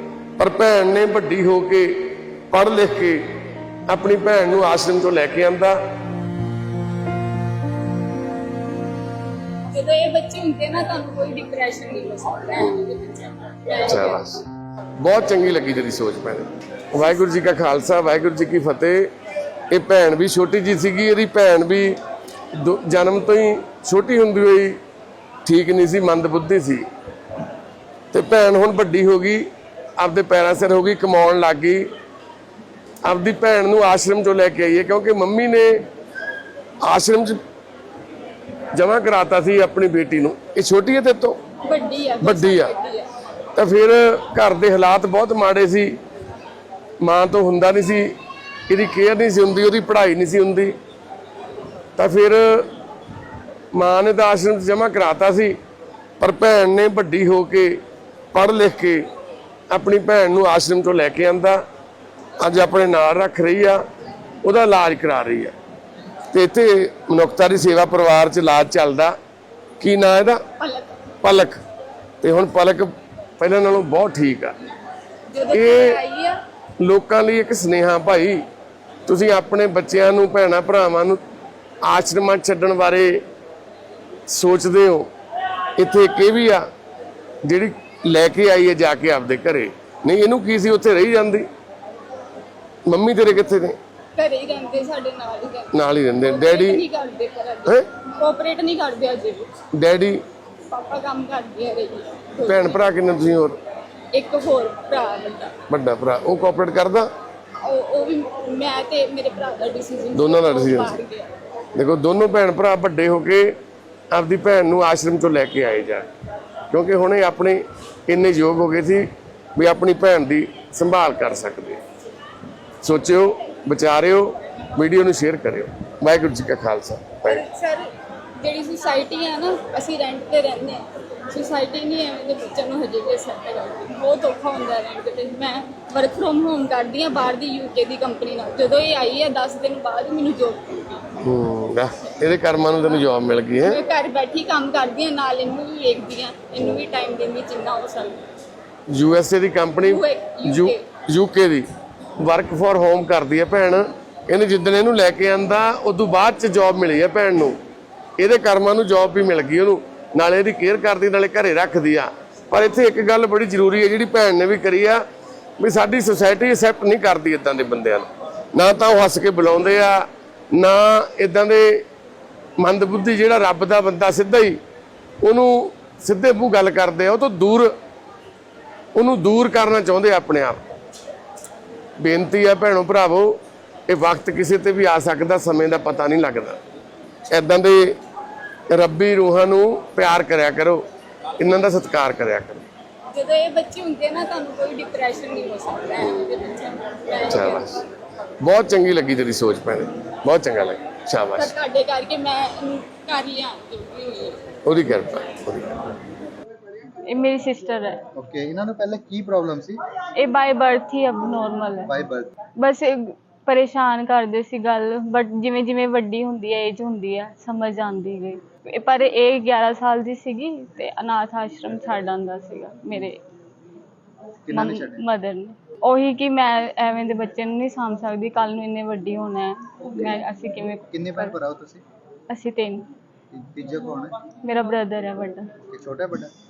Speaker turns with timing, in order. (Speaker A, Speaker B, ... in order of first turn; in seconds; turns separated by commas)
Speaker A: 0.4-3.2, Speaker A: 3.9-5.8, Speaker B: 9.7-14.2, Speaker A: 13.8-14.4, Speaker A: 15.0-19.1, Speaker A: 19.7-22.0, Speaker A: 22.5-24.8, Speaker A: 25.4-26.8, Speaker A: 28.1-29.5, Speaker A: 30.0-31.9, Speaker A: 33.0-35.8, Speaker A: 36.8-37.4, Speaker A: 38.7-41.4, Speaker B: 41.6-43.1, Speaker A: 42.2-42.7, Speaker A: 43.5-46.0, Speaker A: 47.0-48.1, Speaker A: 48.7-50.7, Speaker A: 52.0-52.7, Speaker A: 53.7-55.6, Speaker A: 56.2-57.8, Speaker A: 58.3-59.1, Speaker A: 59.7-61.6, Speaker A: 62.4-63.8, Speaker A: 64.4-65.5, Speaker A: 66.3-69.1, Speaker A: 69.8-70.4, Speaker B: 70.6-70.9, Speaker A: 71.2-71.6, Speaker A: 72.2-74.5, Speaker B: 75.3-76.4, Speaker A: 75.5-76.0, Speaker A: 76.8-78.4, Speaker A: 79.1-81.2, Speaker A: 81.8-83.2, Speaker A: 84.3-85.1, Speaker A: 85.8-86.7, Speaker A: 87.4-91.5, Speaker A: 92.8-93.8, Speaker B: 94.2-99.5, Speaker A: 95.7-96.8, Speaker A: 99.7-100.2, Speaker B: 100.7-102.8, Speaker A: 102.4-103.6, Speaker B: 104.1-105.6, Speaker A: 105.7-107.1, Speaker B: 107.6-111.3, Speaker A: 110.1-111.0, Speaker A: 111.7-113.5, Speaker A: 114.1-116.1, Speaker A: 116.7-121.8, Speaker A: 122.8-127.4, Speaker B: 127.2-141.1, Speaker A: 141.2-143.8, Speaker B: 143.6-148.2, Speaker A: 148.9-151.7, Speaker B: 149.8-150.8, Speaker A: 152.2-157.6, Speaker A: 158.2-165.0, Speaker A: 165.6-171.8, Speaker A: 172.6-174.6, Speaker A: 175.2-177.7, Speaker A: 178.9-180.6, Speaker A: 182.0-183.3, Speaker A: 183.9-186.6, Speaker A: 187.3-187.9, Speaker A: 188.7-190.8, Speaker A: 191.4-192.7, Speaker B: 193.1-197.7, Speaker A: 197.3-197.8, Speaker A: 198.4-201.5, Speaker B: 201.4-204.4, Speaker A: 204.6-205.8, Speaker C: 207.1-208.0, Speaker D: 208.1-209.8, Speaker C: 210.2-211.9, Speaker D: 211.9-212.3, Speaker C: 212.6-223.2, Speaker D: 224.5-225.0, Speaker C: 224.5-231.3, Speaker D: 230.9-231.8, Speaker C: 232.3-232.8, Speaker D: 233.3-234.1, Speaker C: 234.4-235.5, Speaker D: 235.7-236.3